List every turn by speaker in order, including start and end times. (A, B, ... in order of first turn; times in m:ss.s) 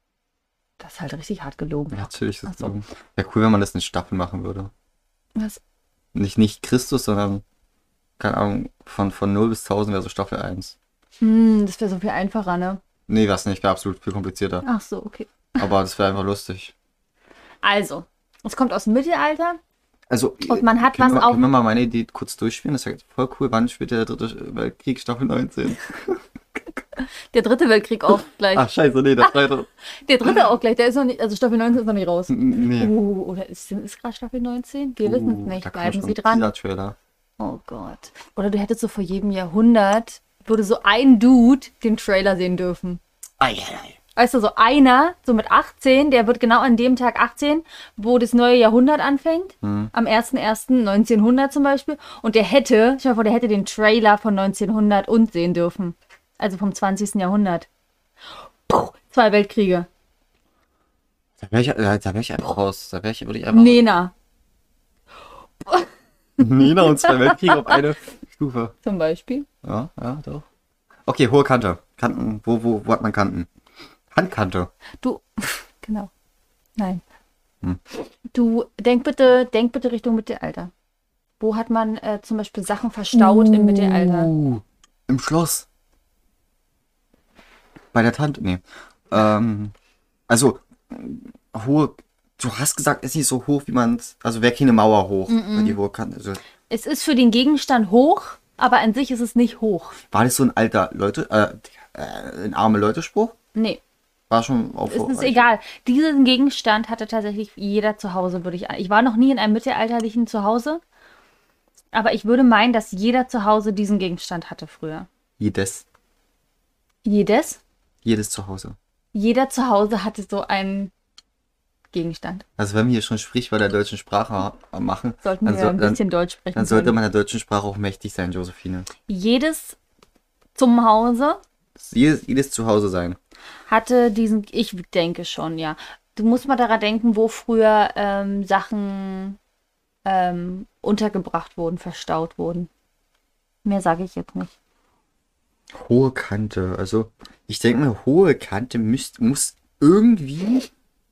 0:00.8-0:02.7 A
0:01.9-0:04.7 B
0:05.3-0:05.6 A
0:06.1-0:07.4 B
0:08.2-0:10.8 B
0:11.2-0:12.8 A
0:13.1-0:14.6 B
0:14.6-0:15.7 A
0:15.6-0:16.7 B
0:17.6-0:19.6 A
0:20.1-0:26.2 B
0:20.4-0:21.5 A
0:27.0-0:28.7 A
0:28.5-0:29.7 B
0:29.2-0:36.5 A
0:32.3-0:32.9 B
0:35.0-0:37.0 B
0:37.4-0:43.0 A
0:43.4-0:44.0 B
0:44.2-0:57.7 A
0:49.6-0:49.9 B
0:58.7-0:59.9 A
1:01.4-1:03.8 B
1:03.5-1:04.1 A
1:05.6-1:07.8 A
1:06.4-1:08.7 B
1:08.8-1:09.5 A
1:09.6-1:10.4 B
1:11.0-1:13.5 B
1:14.1-1:14.7 B
1:15.0-1:16.1 A
1:16.8-1:17.0 A
1:18.3-1:20.7 A
1:21.4-1:24.3 A
1:23.1-1:25.7 B
1:27.9-1:29.7 B
1:30.3-1:36.4 B
1:35.3-1:35.8 A
1:36.7-1:40.0 A
1:40.1-1:43.4 B
1:43.5-1:43.8 A
1:44.3-1:45.5 B
1:44.9-1:50.8 A
1:51.9-1:55.1 A
1:55.4-1:55.8 B
1:57.0-1:57.6 A
1:58.0-1:58.8 B
1:59.1-2:00.9 A
2:01.9-2:02.4 A
2:02.6-2:06.0 B
2:05.2-2:07.0 A
2:06.5-2:08.9 B
2:09.1-2:09.8 A
2:10.5-2:11.4 A
2:11.8-2:13.2 B
2:13.7-2:19.4 A
2:20.0-2:22.7 A
2:23.6-2:24.5 A
2:25.7-2:30.7 B